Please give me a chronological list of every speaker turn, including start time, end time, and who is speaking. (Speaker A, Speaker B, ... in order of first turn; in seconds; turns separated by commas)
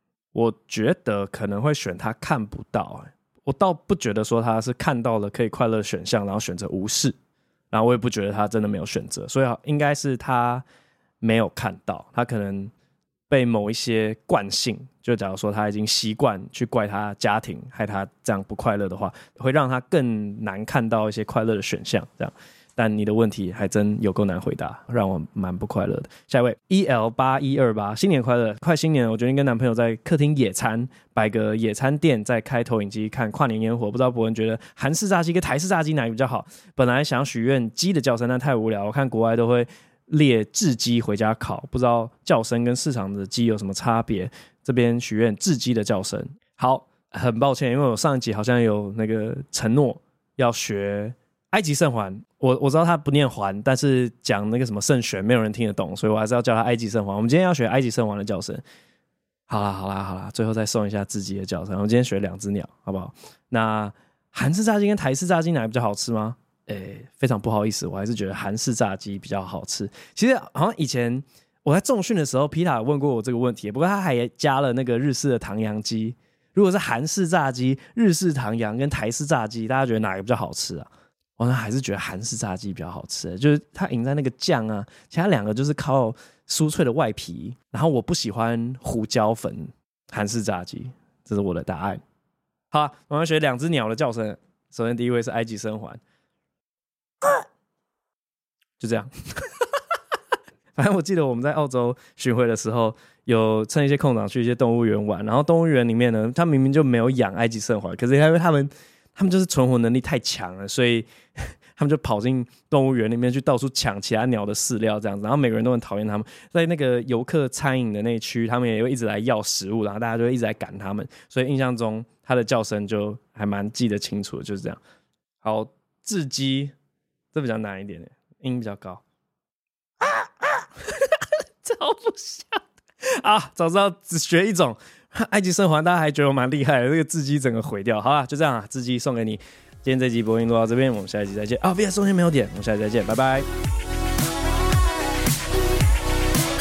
Speaker A: 0.3-7.2, Speaker A: 7.7-10.6, Speaker A: 11.2-12.7, Speaker A: 13.3-58.6, Speaker A: 59.5-92.0, Speaker A: 92.7-96.0, Speaker A: 98.8-99.6, Speaker A: 100.8-124.8, Speaker A: 125.4-126.7, Speaker A: 127.3-129.0, Speaker A: 130.0-143.5